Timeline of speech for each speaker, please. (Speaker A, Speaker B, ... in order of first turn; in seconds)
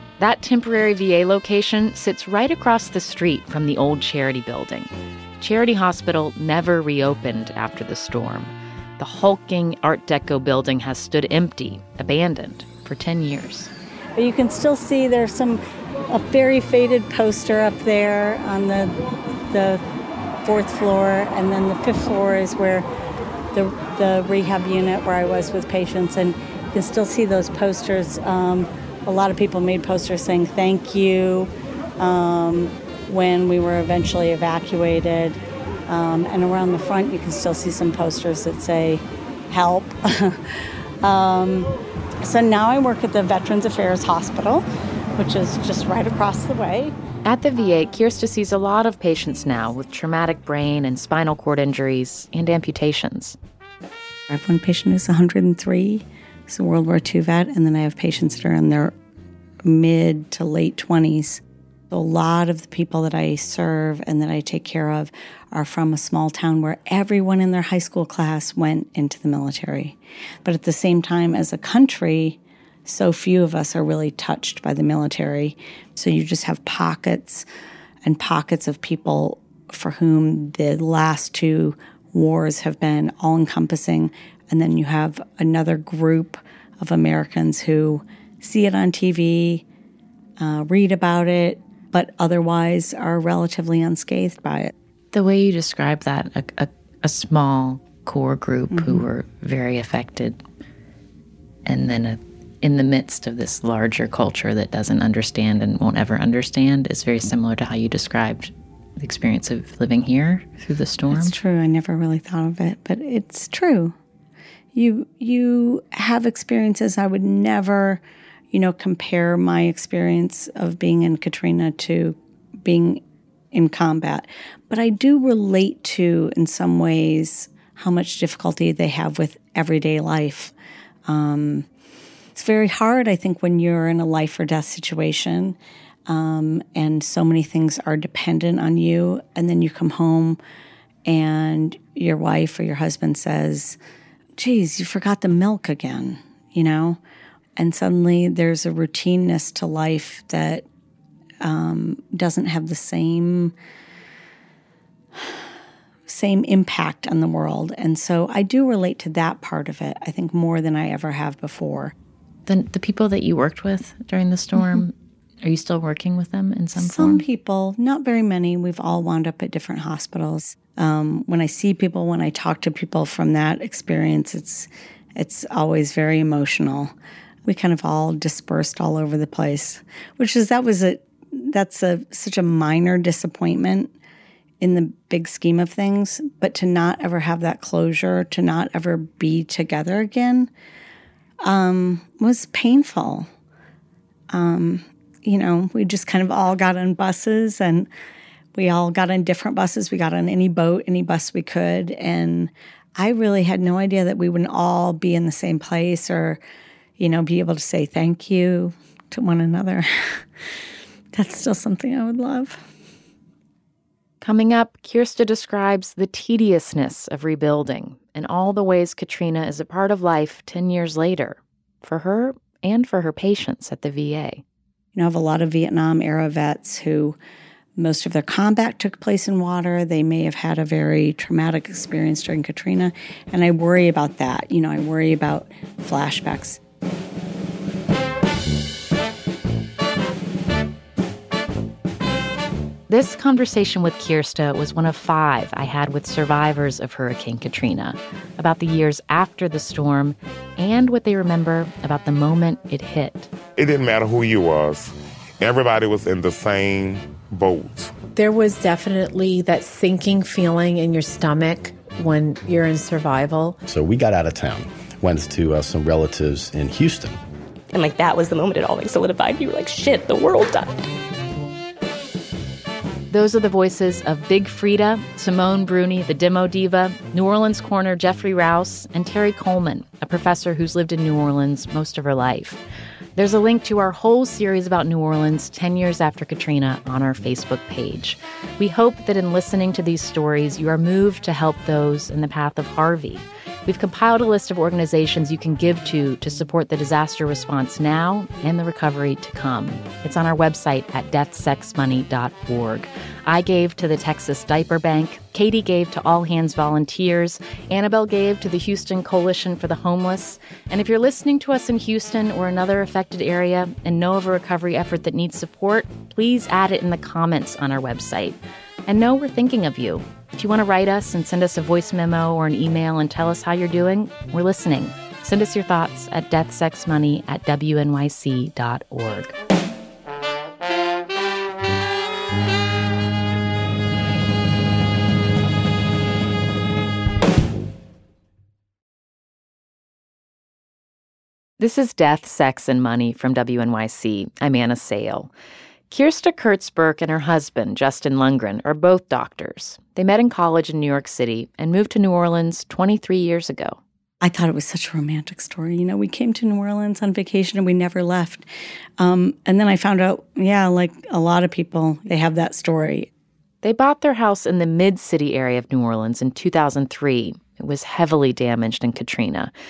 Speaker A: 0.2-13.7, 47.2-53.4, 95.1-100.4, 101.7-111.4, 162.5-167.2, 214.2-224.4, 242.9-253.3, 273.1-282.6, 283.1-329.3, 341.6-345.3, 345.9-353.8, 363.6-369.5
Speaker B: 14.1-19.0, 19.5-19.8, 20.4-22.9, 23.5-41.7, 42.2-46.9, 54.3-58.9, 59.6-77.5, 78.0-89.6, 90.4-94.7, 98.7-99.0, 111.1-113.9, 114.7-130.5, 131.1-131.7, 132.3-140.4, 141.1-143.8, 144.4-147.0, 147.6-150.7, 151.4-153.5, 155.2-155.4, 156.1-161.9, 166.8-176.9, 177.4-183.9, 184.6-190.5, 191.4-193.3, 194.3-197.9, 198.5-206.4, 207.0-210.3, 211.1-212.6, 224.9-227.2, 227.8-236.6, 354.2-358.5, 359.0-363.1
Speaker C: 253.6-258.0
Speaker D: 258.1-263.6
Speaker E: 263.7-267.2
Speaker F: 267.7-270.9